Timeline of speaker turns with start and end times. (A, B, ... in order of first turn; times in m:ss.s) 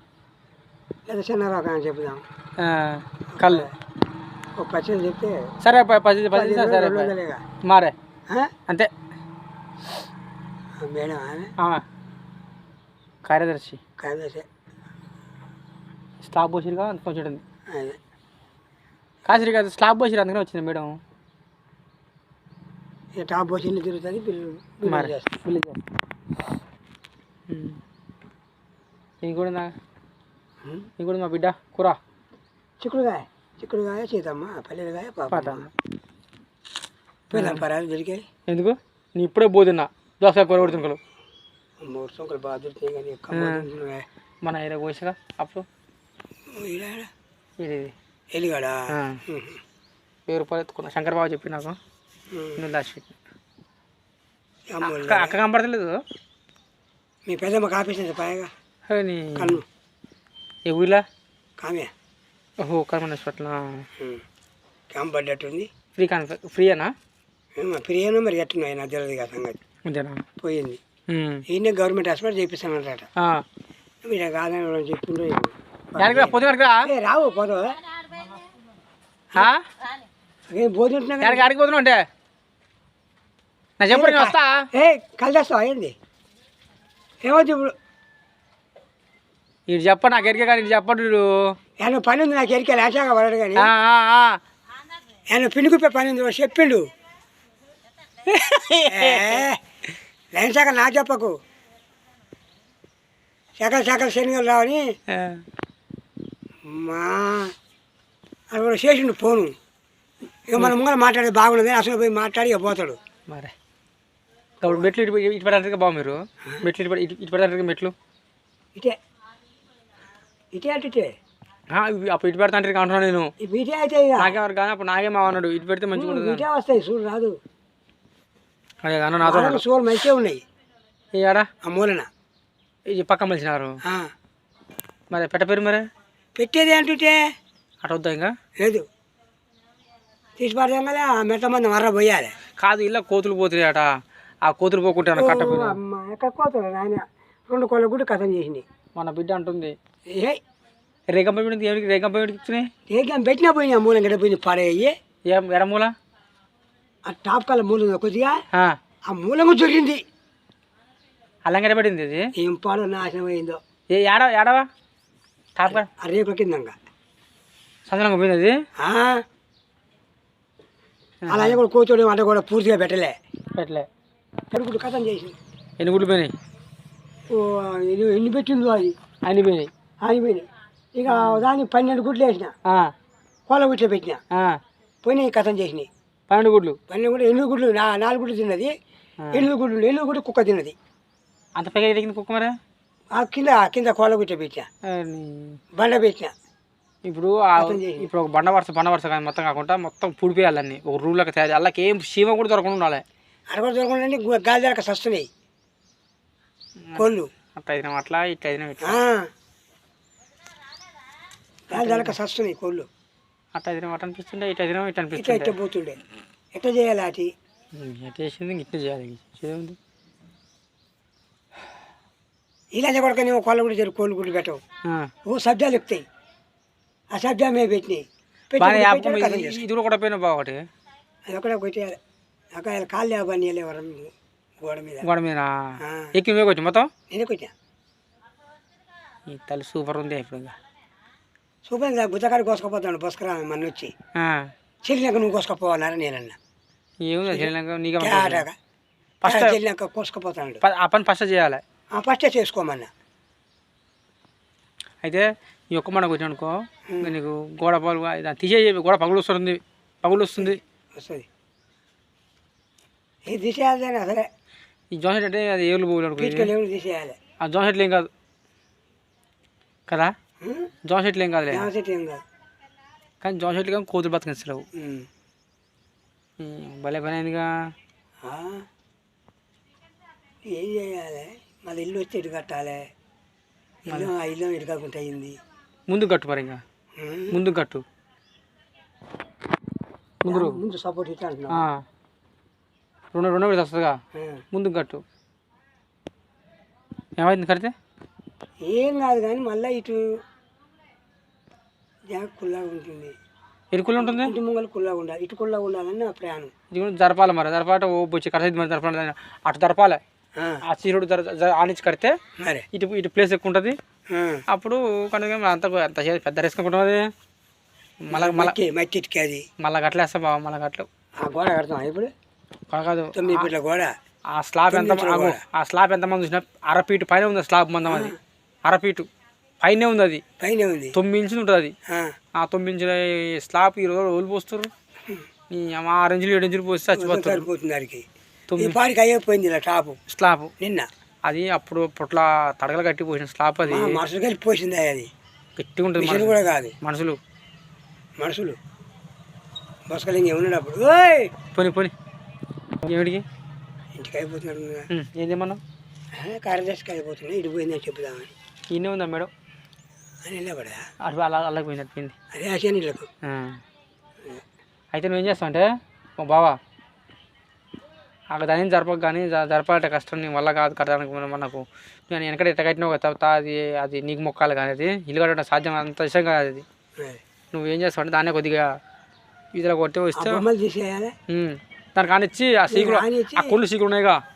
0:01.0-0:02.2 A
0:02.6-0:03.7 B
0:03.3-0:03.7 A
0:04.6-0:05.5 A
0:05.6-0:07.9 B
0:06.3-0:07.4 A
0:08.3-0:08.5 A
0:10.8-0:11.5 A
0:11.6-0:11.8 B
0:13.2-0:13.8 B
0:14.0-0:14.4 A
0:16.2-0:17.4 B
0:17.7-0:18.0 A
0:19.2-0:21.0 B
0:23.2-0:25.4 A
0:24.8-0:25.8 B
0:27.5-0:27.8 B
0:29.2-0:29.7 B
0:30.6-0:30.9 A
0:31.0-0:32.0 B
0:32.8-0:35.7 A
0:35.3-0:35.7 B
0:37.3-0:37.6 B
0:37.3-0:38.2 A
0:38.5-0:41.0 B
0:41.8-0:44.0 A
0:43.3-0:43.6 B
0:44.4-0:45.6 B
0:46.5-0:47.1 A
0:47.6-0:47.9 B
0:48.3-0:49.6 A
0:48.9-0:49.2 B
0:50.3-0:51.8 B
0:52.3-0:52.6 A
0:52.6-0:53.1 B
0:54.7-0:55.4 A
0:54.8-0:56.0 B
0:57.2-0:58.5 A
0:58.9-0:59.6 B
0:59.4-0:59.6 A
1:00.6-1:01.0 B
1:01.6-1:01.9 A
1:02.6-1:03.8 B
1:04.0-1:04.2 A
1:04.9-1:05.7 A
1:06.0-1:06.9 B
1:07.6-1:09.6 A
1:09.8-1:10.2 B
1:10.4-1:10.8 A
1:11.1-1:11.4 B
1:11.5-1:13.1 A
1:13.2-1:13.4 B
1:14.0-1:17.8 A
1:16.0-1:16.9 B
1:19.3-1:19.6 B
1:20.5-1:21.5 A
1:21.2-1:22.0 B
1:23.8-1:24.7 B
1:23.9-1:25.9 A
1:27.2-1:27.7 A
1:29.7-1:31.6 B
1:31.8-1:33.7 A
1:33.6-1:34.4 B
1:35.3-1:36.9 A
1:38.2-1:39.4 B
1:38.9-1:39.6 A
1:40.3-1:41.4 A
1:43.6-1:44.8 A
1:45.1-1:45.4 B
1:46.6-1:47.5 A
1:48.5-1:49.5 A
1:50.5-1:53.0 A
1:53.3-1:53.5 B
1:54.6-1:57.9 B
2:00.5-2:01.1 A
2:01.7-2:03.3 B
2:03.4-2:04.3 A
2:04.2-2:06.5 B
2:05.9-2:07.4 A
2:08.8-2:09.6 B
2:09.2-2:10.4 A
2:11.1-2:11.5 B
2:11.6-2:12.1 A
2:12.9-2:13.8 B
2:13.8-2:14.1 A
2:15.1-2:15.8 B
2:16.4-2:17.2 A
2:17.8-2:18.3 B
2:18.6-2:18.8 A
2:20.4-2:22.3 A
2:22.6-2:23.9 B
2:24.4-2:25.8 B
2:25.1-2:28.6 A
2:28.9-2:29.8 B
2:30.1-2:30.4 A
2:31.1-2:32.7 B
2:32.9-2:34.9 A
2:35.2-2:35.9 B
2:37.0-2:38.3 A
2:39.1-2:40.0 A
2:41.4-2:42.3 B
2:42.3-2:43.6 A
2:43.9-2:44.7 B
2:45.6-2:45.9 B
2:45.7-2:46.7 A
2:47.9-2:48.6 B
2:48.8-2:49.2 A
2:51.2-2:51.6 B
2:51.3-2:53.1 A
2:53.6-2:53.9 B
2:54.5-2:55.4 A
2:55.8-2:56.3 B
2:57.3-2:59.0 A
2:59.2-2:59.7 B
3:00.0-3:02.5 A
3:01.1-3:01.4 B
3:02.6-3:02.9 B
3:03.5-3:04.2 A
3:04.3-3:04.6 B
3:05.0-3:05.9 A
3:06.3-3:06.8 B
3:06.9-3:08.7 A
3:09.2-3:09.5 B
3:09.3-3:10.7 A
3:11.6-3:12.5 B
3:13.1-3:14.7 A
3:14.8-3:15.6 B
3:15.7-3:16.3 A
3:17.0-3:23.0 B
3:17.6-3:18.1 A
3:23.5-3:25.3 A
3:26.8-3:29.0 B
3:26.9-3:27.3 A
3:28.8-3:29.3 A
3:31.7-3:32.9 A
3:31.7-3:32.2 B
3:33.5-3:35.5 B
3:35.1-3:36.0 A
3:36.5-3:37.3 A
3:37.7-3:39.8 B
3:42.7-3:44.6 A
3:44.8-3:45.1 B
3:45.2-3:46.0 A
3:47.1-3:49.6 A
3:48.6-3:50.6 B
3:51.3-3:52.0 A
3:52.5-3:55.1 A
3:55.0-3:56.9 B
3:55.8-3:56.1 A
3:57.1-3:57.5 A
3:59.3-4:00.5 B
4:01.6-4:03.9 A
4:04.1-4:04.5 B
4:04.8-4:06.4 A
4:07.0-4:08.4 B
4:07.3-4:08.6 A
4:09.2-4:09.6 B
4:09.2-4:10.6 A
4:10.6-4:11.6 B
4:11.9-4:12.9 A
4:15.0-4:20.6 B
4:16.9-4:17.1 A
4:20.4-4:21.3 A
4:23.2-4:24.3 A
4:24.9-4:26.5 B
4:26.2-4:27.2 A
4:27.4-4:28.1 B
4:29.9-4:30.1 B
4:30.4-4:30.7 A
4:30.8-4:31.7 B
4:31.5-4:32.2 A
4:33.2-4:34.6 B
4:34.7-4:35.1 A
4:36.4-4:37.5 B
4:38.2-4:38.6 A
4:40.4-4:42.9 A
4:43.8-4:45.4 A
4:45.9-4:46.6 B
4:47.0-4:47.4 A
4:47.3-4:47.8 B
4:50.2-4:50.6 B
4:50.2-4:51.6 A
4:51.5-4:51.8 B
4:53.1-4:54.0 B
4:54.1-4:54.4 A
4:54.5-4:55.0 B
4:57.2-4:57.7 B
4:58.6-5:00.0 A
5:02.1-5:03.1 A
5:03.7-5:04.3 B
5:04.0-5:06.5 A
5:06.7-5:10.0 B
5:10.4-5:10.6 A
5:10.6-5:12.1 B
5:12.4-5:12.6 A
5:12.7-5:13.8 B
5:14.1-5:14.4 A
5:14.5-5:17.0 B
5:18.0-5:18.6 B
5:18.1-5:19.4 A
5:19.6-5:20.9 B
5:21.2-5:22.1 A
5:22.7-5:23.5 B
5:23.1-5:23.9 A
5:24.3-5:29.1 B
5:24.7-5:25.4 A
5:27.9-5:28.2 A
5:29.6-5:30.2 B
5:30.4-5:31.0 A
5:30.9-5:31.7 B
5:31.9-5:32.1 A
5:32.4-5:34.7 B
5:35.5-5:37.5 B
5:36.9-5:38.0 A
5:38.5-5:38.8 B
5:38.6-5:40.0 A
5:40.1-5:40.5 B
5:40.6-5:40.9 A
5:41.2-5:44.0 B
5:43.6-5:45.1 A
5:45.6-5:47.2 B
5:46.0-5:46.7 A
5:48.2-5:48.6 A
5:49.9-5:51.3 A
5:51.5-5:51.9 B
5:52.8-5:53.2 B
5:53.9-5:54.9 A
5:54.9-5:55.6 B
5:56.1-5:58.3 A
5:58.7-5:59.3 B
6:00.2-6:00.9 A
6:01.0-6:02.1 B
6:02.3-6:03.1 A
6:03.2-6:03.6 B
6:04.9-6:05.7 B
6:06.2-6:06.6 B
6:08.3-6:16.6 B
6:17.5-6:18.8 B
6:19.5-6:20.4 B
6:20.2-6:21.1 A
6:21.3-6:24.2 B
6:22.7-6:23.5 A